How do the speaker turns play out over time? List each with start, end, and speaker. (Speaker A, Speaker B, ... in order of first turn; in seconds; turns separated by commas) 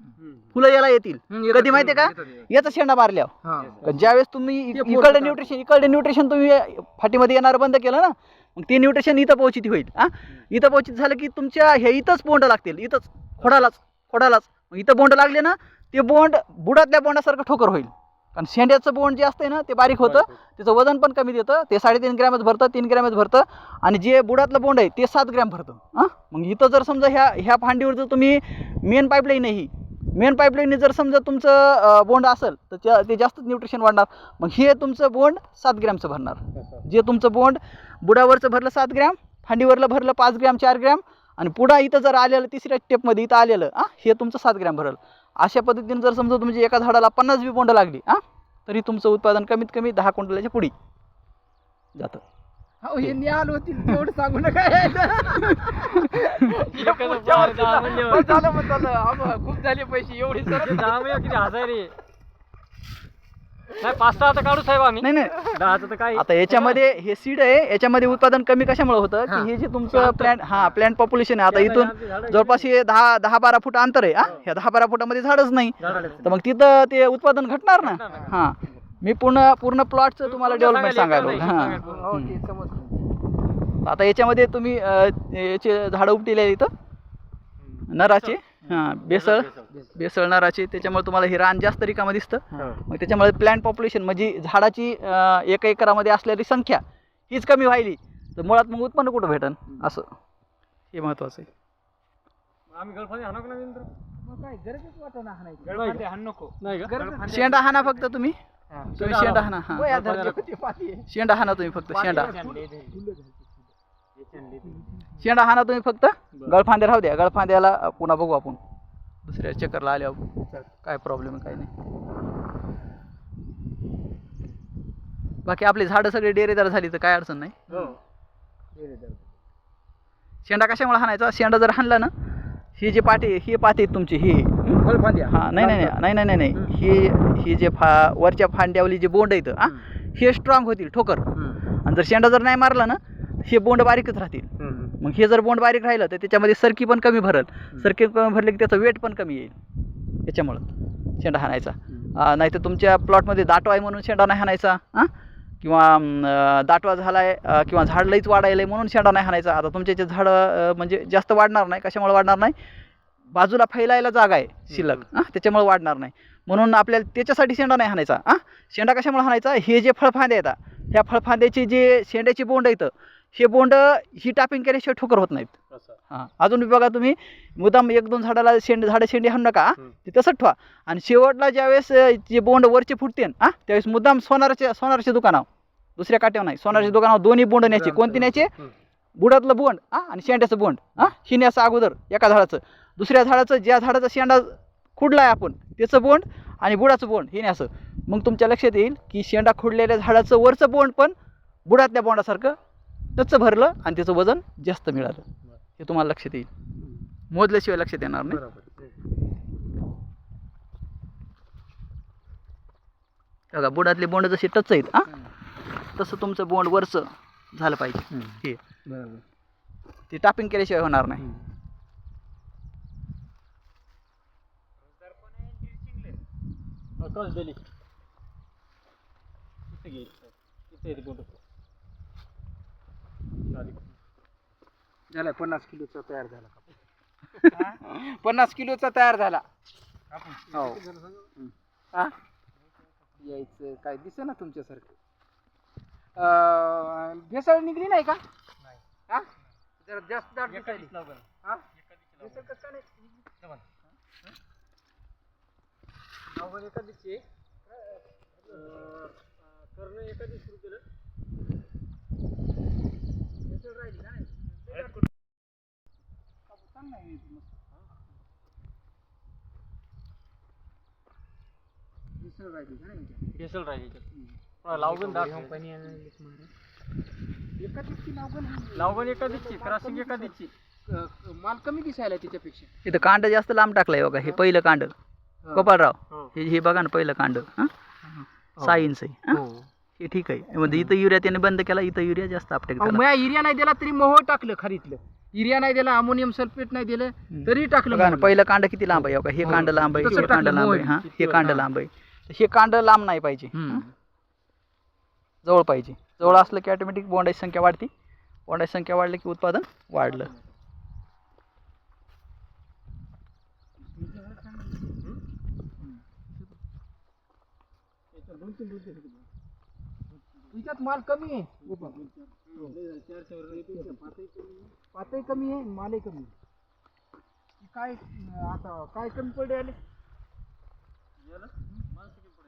Speaker A: 0.5-50.7, Speaker B: 1.3-2.4, Speaker B: 3.4-3.9, Speaker B: 4.7-5.5, Speaker C: 13.4-13.7, Speaker C: 20.0-20.3, Speaker C: 36.5-36.8, Speaker A: 52.0-52.2, Speaker B: 52.8-61.2, Speaker C: 56.6-58.5, Speaker C: 60.5-61.9, Speaker C: 63.8-66.8, Speaker A: 65.0-65.5, Speaker A: 66.1-82.4, Speaker C: 69.9-70.3, Speaker C: 71.5-72.7, Speaker C: 75.8-76.3, Speaker B: 75.9-76.3, Speaker C: 77.8-78.4, Speaker B: 78.1-78.4, Speaker C: 80.2-82.1, Speaker B: 81.8-83.1, Speaker A: 83.8-86.7, Speaker C: 87.6-88.4, Speaker A: 87.9-100.1, Speaker C: 89.1-89.7, Speaker B: 89.7-90.0, Speaker A: 100.9-101.5, Speaker C: 102.7-103.9, Speaker B: 104.2-106.0, Speaker C: 105.7-107.9, Speaker B: 106.8-107.6, Speaker A: 107.2-108.4, Speaker A: 108.9-109.9, Speaker C: 109.0-110.5, Speaker B: 109.7-111.1, Speaker A: 111.1-112.3, Speaker B: 111.8-113.7, Speaker C: 112.0-113.0, Speaker C: 114.2-115.0, Speaker A: 115.2-118.6, Speaker A: 119.2-120.3, Speaker A: 120.8-121.7, Speaker A: 125.4-127.6, Speaker B: 127.7-128.0, Speaker C: 127.7-128.0, Speaker B: 128.8-129.3, Speaker A: 130.4-132.1, Speaker A: 132.8-141.2, Speaker B: 134.7-135.9, Speaker B: 141.3-141.6, Speaker A: 141.8-144.5, Speaker C: 144.6-144.9, Speaker A: 145.0-149.5, Speaker A: 150.2-150.6, Speaker A: 151.2-155.1, Speaker A: 155.6-162.5, Speaker A: 163.3-175.5, Speaker C: 164.7-165.0, Speaker C: 175.7-176.0, Speaker A: 176.1-185.4, Speaker A: 186.0-188.5, Speaker B: 187.8-188.3, Speaker A: 189.2-201.1, Speaker A: 201.7-202.5, Speaker A: 203.2-205.2, Speaker A: 205.8-206.5, Speaker A: 207.3-208.4, Speaker C: 208.3-208.6, Speaker A: 213.5-215.1, Speaker A: 215.9-218.6, Speaker B: 218.1-219.2, Speaker A: 220.1-221.2, Speaker C: 227.0-227.6, Speaker C: 229.7-231.3, Speaker C: 233.5-233.9, Speaker B: 235.1-236.7, Speaker B: 237.4-239.4, Speaker C: 240.2-241.2, Speaker B: 240.5-240.8, Speaker B: 241.4-242.1, Speaker B: 243.2-244.9, Speaker B: 246.1-248.2, Speaker B: 249.8-250.9, Speaker C: 250.4-251.2, Speaker C: 251.8-252.5, Speaker B: 252.2-253.0, Speaker C: 256.3-257.2, Speaker C: 258.5-260.8, Speaker B: 263.6-264.9, Speaker B: 266.6-267.4, Speaker B: 272.2-273.2, Speaker C: 273.3-274.0, Speaker C: 274.6-276.0, Speaker B: 274.8-276.3, Speaker B: 277.6-282.7, Speaker C: 278.7-280.5, Speaker A: 282.8-284.9, Speaker B: 285.4-285.7, Speaker A: 285.5-287.7, Speaker A: 288.6-289.4, Speaker B: 289.3-289.7, Speaker A: 290.0-293.0, Speaker B: 292.8-298.4, Speaker A: 297.3-303.8, Speaker C: 299.4-300.5, Speaker B: 299.4-301.6, Speaker C: 301.1-301.6, Speaker B: 303.5-303.9, Speaker A: 305.4-307.9, Speaker A: 308.5-310.3, Speaker B: 314.0-314.6, Speaker C: 318.1-319.2, Speaker B: 320.5-322.1, Speaker C: 321.7-324.7, Speaker B: 323.5-324.1, Speaker B: 324.9-326.3, Speaker B: 327.6-329.8, Speaker C: 331.3-332.2